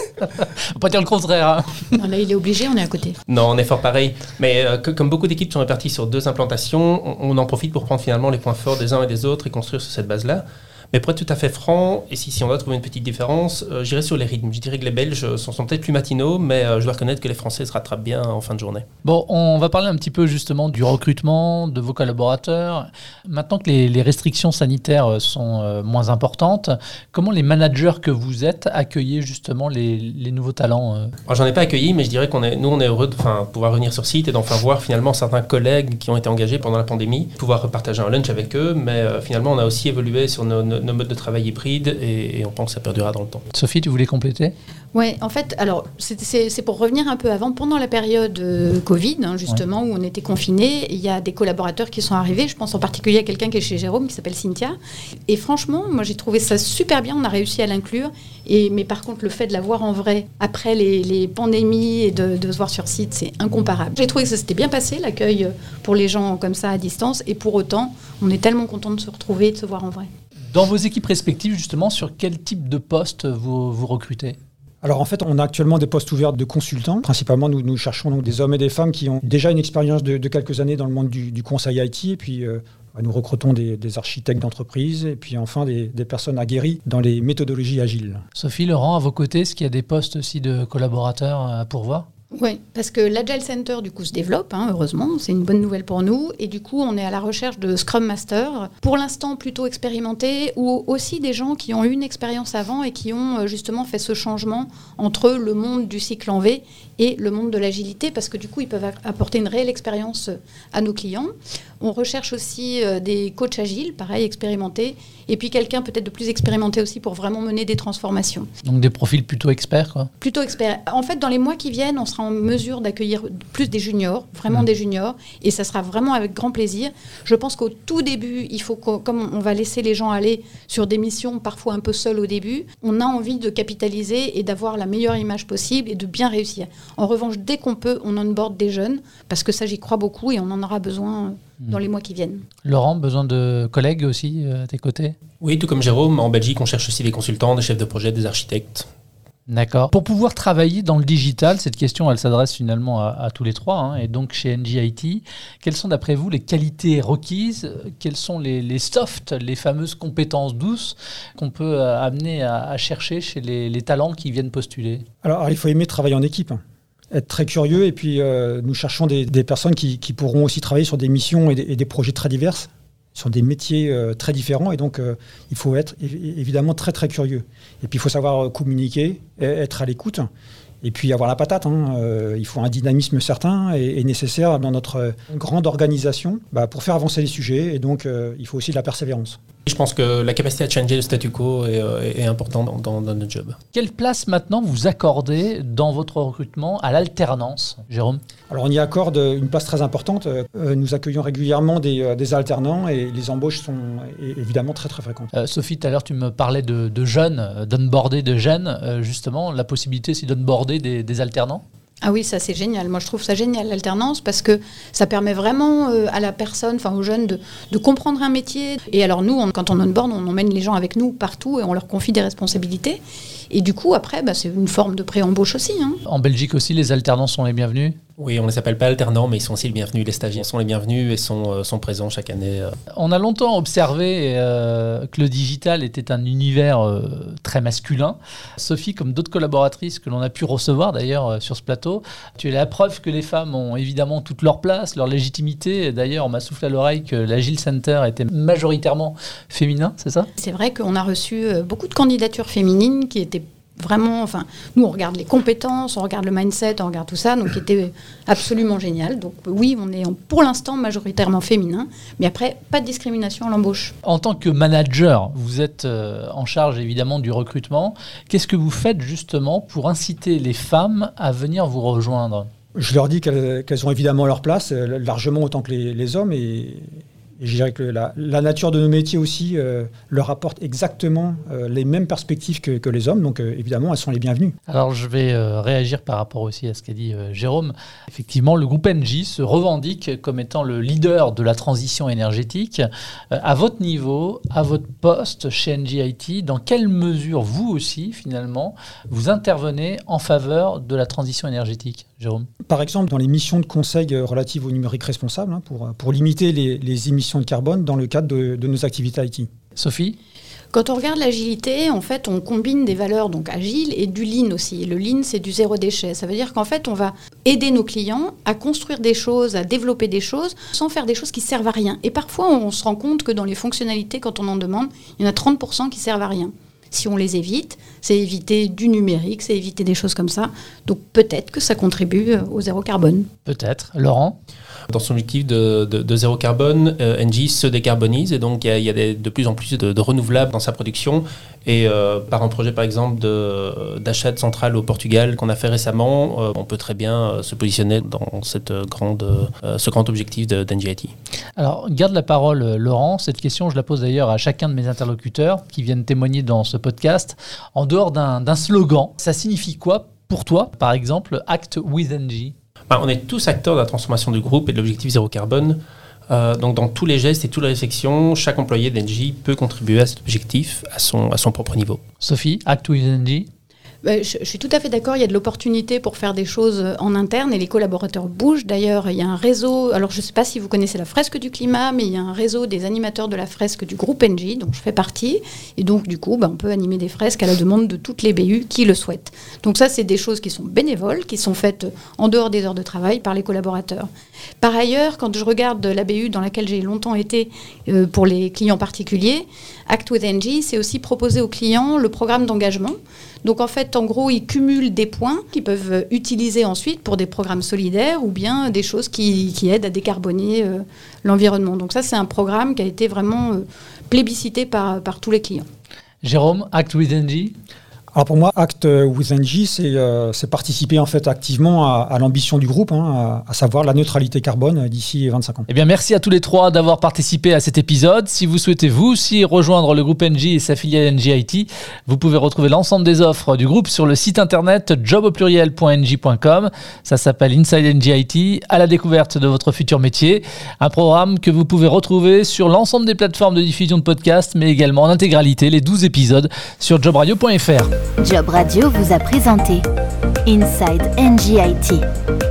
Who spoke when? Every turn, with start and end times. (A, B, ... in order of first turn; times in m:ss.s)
0:00.2-0:02.0 A
0:02.0-0:03.2 B
0:03.3-0:18.9 C
0:19.0-0:31.2 A
0:31.3-0:43.5 C
0:43.5-0:44.5 A
0:44.9-0:54.8 B
0:55.3-1:10.1 B
1:10.5-1:14.4 A
1:14.8-1:28.2 D
1:28.4-1:32.1 A
1:32.3-1:58.5 B
1:58.6-2:00.1 A
2:00.2-2:22.4 B
2:22.6-2:25.2 A
2:25.4-2:28.9 C
2:29.5-2:45.0 A
2:45.2-2:46.6 D
2:47.1-3:00.3 D
3:00.8-3:09.4 D
3:09.7-3:13.6 C
3:13.7-3:18.2 A
3:18.5-3:25.3 D
3:25.3-3:31.6 A
3:32.0-3:43.0 B
3:43.5-3:46.0 B
3:46.1-3:48.0 A
3:48.2-3:52.8 C
3:52.9-4:10.3 A
4:10.4-4:23.9 B
4:24.0-4:32.5 A
4:32.8-4:44.6 D
4:44.7-5:02.5 A
5:02.6-5:09.5 D
5:09.8-5:10.2 A
5:10.7-5:33.3 B
5:33.5-5:34.4 A
5:34.9-5:51.1 C
5:51.6-6:02.5 A
6:02.9-6:12.0 C
6:12.2-6:13.5 A
6:14.0-6:34.1 B
6:34.6-6:55.7 B
6:56.2-6:57.6 A
6:58.1-7:05.7 D
7:05.7-7:27.9 A
7:28.2-7:29.9 E
7:30.5-7:32.0 E